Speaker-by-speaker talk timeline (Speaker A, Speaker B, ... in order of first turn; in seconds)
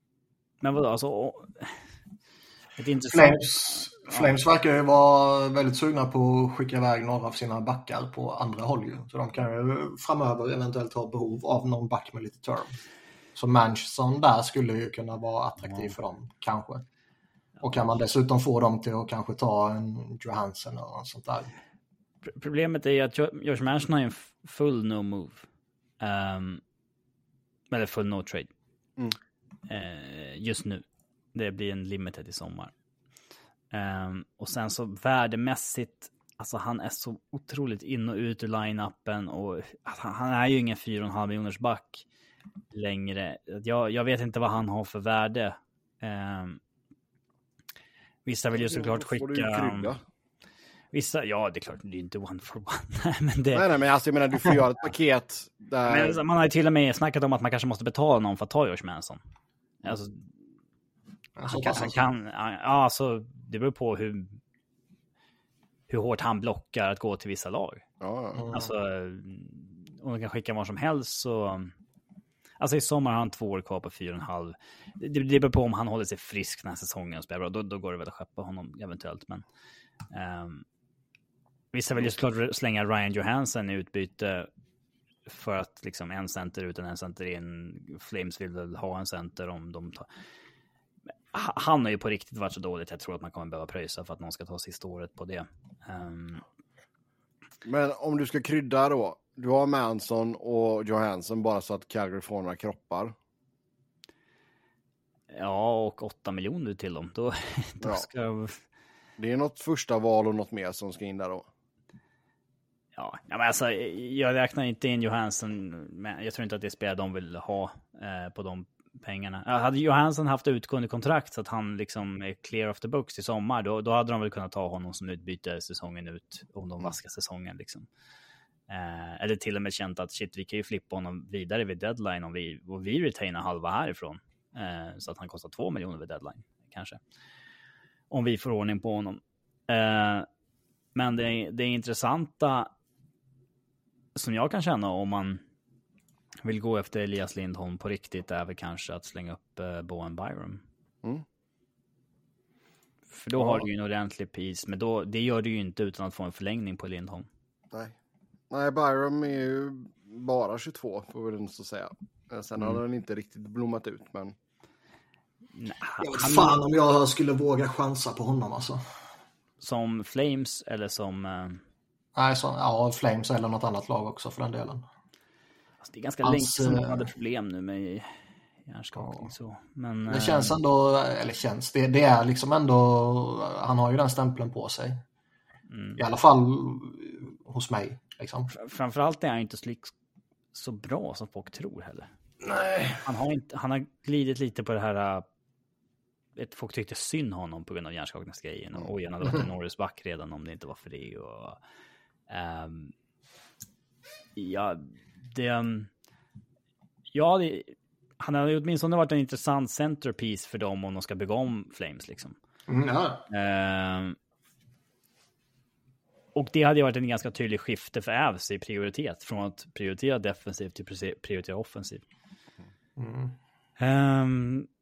Speaker A: 0.6-1.8, 2.8-4.3, 22.3-25.4, 26.0-26.6, 27.7-28.5, 29.7-32.7, 33.7-42.0, 42.7-46.6, 48.3-49.9, 50.9-53.6, 55.9-59.2, 59.8-60.2, 61.5-64.4, 65.9-67.8, 68.5-71.7, 72.6-79.4, 80.1-80.7, 81.7-84.5, 85.3-90.1, 91.3-96.4, 105.3-108.6, 113.0-127.9, 128.7-137.0, 138.1-140.3, 140.9-142.7, 144.2-145.4, 146.4-150.6, 153.1-157.3, 165.6-166.6, 169.6-171.6, 175.8-180.6, 185.7-186.0, 188.5-189.9, 190.5-192.1, 193.0-195.3, 196.4-201.6, 202.3-202.9, 204.4-205.9, 207.1-212.4, 213.3-214.2, 216.3-222.0, 223.8-224.7
Speaker B: 3.1-12.8, 13.4-16.8, 17.6-21.5, 61.4-62.0, 68.4-68.7, 166.0-168.8, 172.2-174.9, 176.2-177.1, 179.0-179.3, 180.1-185.0, 186.0-188.5, 192.4-193.0, 212.7-213.2, 223.0-223.3
Speaker C: 48.6-50.0, 53.5-56.2, 68.0-68.5, 97.6-103.2, 107.8-108.1, 109.2-111.5, 153.4-153.7, 158.5-164.3